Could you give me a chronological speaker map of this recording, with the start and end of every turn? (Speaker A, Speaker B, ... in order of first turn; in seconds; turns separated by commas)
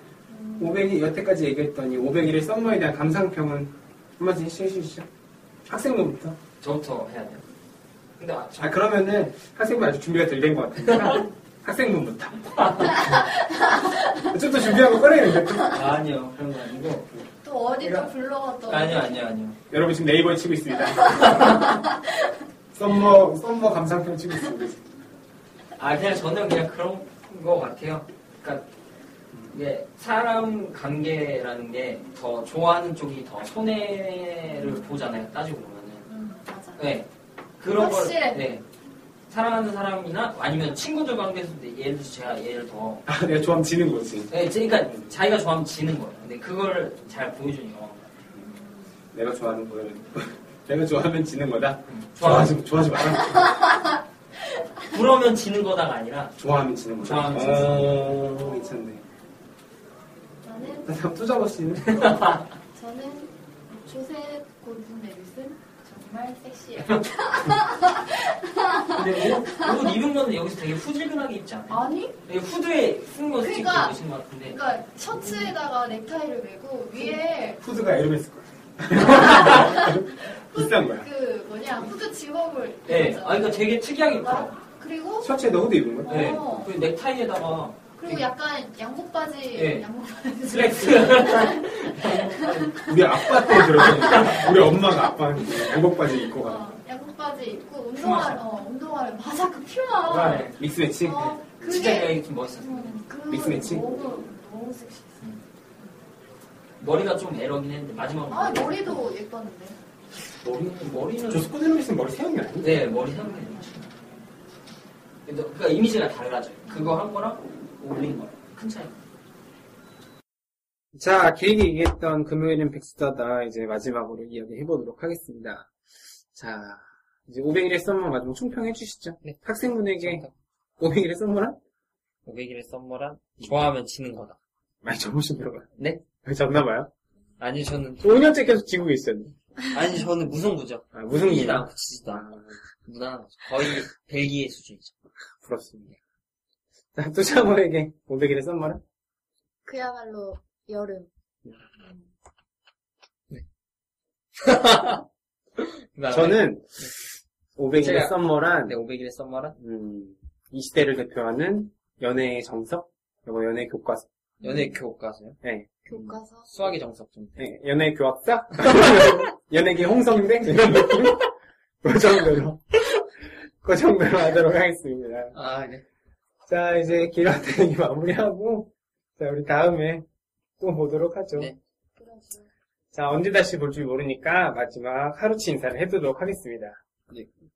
Speaker A: 0.3-0.8, Speaker B: 0.6-5.1, Speaker B: 5.7-6.4, Speaker C: 6.6-7.4, Speaker C: 8.2-8.8, Speaker B: 8.6-13.3, Speaker C: 10.8-11.2, Speaker C: 12.5-13.0, Speaker A: 12.9-14.7, Speaker B: 14.2-15.8, Speaker C: 15.7-17.1, Speaker A: 17.4-19.1, Speaker C: 17.8-18.1, Speaker C: 18.7-19.6, Speaker B: 19.7-21.6, Speaker A: 21.0-22.3, Speaker C: 21.1-21.6, Speaker B: 22.7-24.8, Speaker C: 25.8-28.6, Speaker C: 29.5-36.0, Speaker A: 36.1-36.8, Speaker C: 36.8-37.1, Speaker C: 37.6-38.6, Speaker A: 37.6-38.5, Speaker C: 39.3-43.1, Speaker B: 43.1-44.3, Speaker C: 44.3-48.1, Speaker B: 44.8-45.1, Speaker A: 48.4-48.9, Speaker B: 49.1-53.6, Speaker C: 51.9-52.6, Speaker A: 53.3-53.9, Speaker C: 54.9-56.4, Speaker B: 56.4-59.0, Speaker C: 57.0-57.8, Speaker A: 58.1-58.9, Speaker A: 60.4-60.9, Speaker B: 60.8-62.2, Speaker C: 61.9-62.4, Speaker A: 62.7-69.9, Speaker C: 68.9-74.6, Speaker A: 71.7-72.2, Speaker A: 73.4-74.0, Speaker A: 74.5-77.6, Speaker B: 77.6-81.1, Speaker C: 79.0-79.6, Speaker A: 79.0-83.5, Speaker C: 82.9-84.5, Speaker A: 84.2-85.3, Speaker B: 85.2-86.4, Speaker A: 86.0-86.7, Speaker C: 86.1-88.2, Speaker A: 88.0-94.3, Speaker C: 89.5-89.8, Speaker C: 90.5-93.0, Speaker B: 92.8-96.6, Speaker C: 93.8-94.5, Speaker A: 96.3-100.5, Speaker C: 98.0-98.4, Speaker C: 100.0-100.6, Speaker B: 100.5-101.4, Speaker A: 101.0-105.9, Speaker C: 101.6-103.0, Speaker B: 103.3-104.0, Speaker C: 106.8-109.0, Speaker A: 108.3-109.8, Speaker B: 110.4-112.8, Speaker C: 110.6-111.5, Speaker C: 112.6-113.9, Speaker C: 115.2-119.0, Speaker A: 116.7-117.0, Speaker B: 120.9-125.7, Speaker B: 126.3-130.2, Speaker C: 130.0-130.3, Speaker B: 130.8-131.6, Speaker C: 132.2-134.4, Speaker B: 134.8-136.9, Speaker C: 135.8-136.0, Speaker C: 137.4-138.2, Speaker B: 138.0-139.3, Speaker C: 139.7-142.3, Speaker B: 140.9-142.6, Speaker C: 142.8-144.9, Speaker B: 145.4-146.0, Speaker B: 146.9-148.8, Speaker A: 149.6-151.1, Speaker C: 154.4-155.0, Speaker C: 155.6-156.9, Speaker B: 156.1-156.9, Speaker B: 157.6-158.8, Speaker C: 157.8-159.6, Speaker B: 159.6-164.1, Speaker A: 164.4-164.8, Speaker C: 164.4-165.4, Speaker B: 165.4-165.9, Speaker A: 165.8-166.5, Speaker C: 166.0-167.4, Speaker B: 167.4-171.3, Speaker B: 171.8-172.8, Speaker B: 173.6-175.3, Speaker C: 175.3-175.8, Speaker B: 176.5-180.1, Speaker B: 180.6-181.5, Speaker A: 182.0-182.5, Speaker B: 182.9-186.8